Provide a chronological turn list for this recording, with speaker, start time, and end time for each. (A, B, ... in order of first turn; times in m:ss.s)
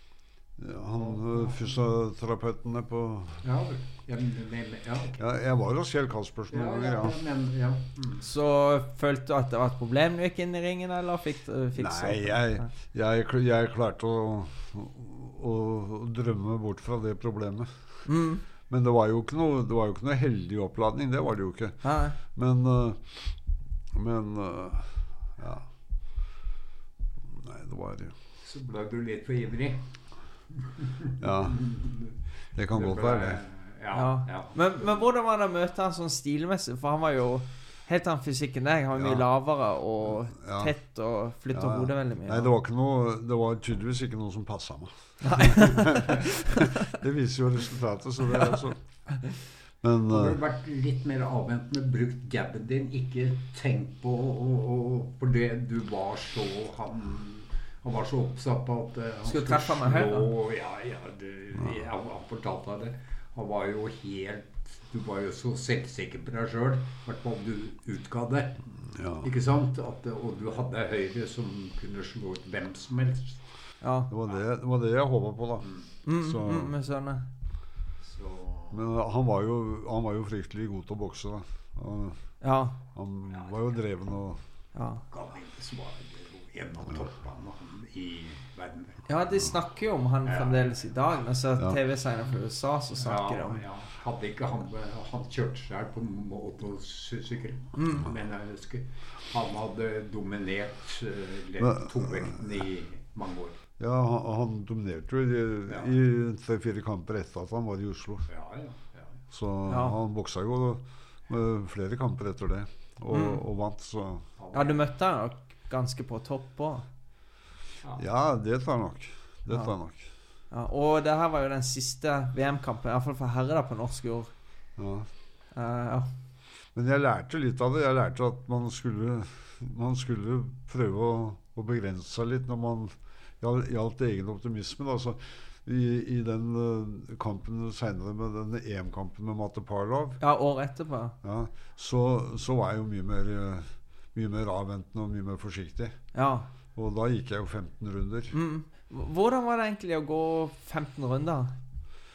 0:00.6-0:03.4 A
0:00.9-0:01.7 B
0:03.4-0:05.2 B
0:05.2-0:07.2 A
0:06.5-0:08.2 B
0:08.2-0:12.6 C
0:11.8-0:17.7 A
0:18.0-0:18.4 C
0:18.7-0:23.4 A
0:21.8-0:22.2 C
0:23.9-0:25.7 A
0:27.3-0:28.1 A
0:28.4-0:29.9 B
0:30.6-0:32.2 B
0:31.2-0:31.6 A
0:32.5-0:33.4 A
0:32.7-0:35.0 B
0:33.9-0:42.5 C
0:38.9-0:39.2 A
0:40.4-0:40.7 A
0:41.5-0:48.8 A
0:45.2-0:46.9 C
0:49.8-0:50.4 A
0:50.1-1:08.6 B
0:59.2-1:00.3 C
1:08.9-1:09.3 A
1:09.2-1:13.4 B
1:13.8-1:14.1 C
1:14.1-1:16.7 A
1:15.6-1:15.9 B
1:16.0-1:17.3 C
1:18.0-1:18.8 B
1:18.7-1:22.2 A
1:22.4-1:22.8 C
1:22.9-1:24.4 A
1:23.3-1:23.6 B
1:24.7-1:25.0 C
1:25.1-1:29.1 B
1:29.1-1:33.6 C
1:30.2-1:30.8 B
1:33.0-1:43.6 B
1:37.8-1:38.1 C
1:41.6-1:42.4 A
1:43.8-1:48.3 A
1:45.7-1:45.9 B
1:48.3-1:49.1 B
1:49.3-1:54.3 A
1:49.7-1:50.0 C
1:53.1-1:53.4 C
1:54.4-1:54.8 B
1:54.5-1:56.8 C
1:58.0-2:00.1 A
2:00.5-2:04.3 C
2:04.8-2:05.1 A
2:05.5-2:06.1 C
2:06.7-2:20.2 A
2:20.2-2:21.2 C
2:21.2-2:26.0 A
2:26.1-2:26.5 C
2:26.7-2:28.4 A
2:28.3-2:31.6 C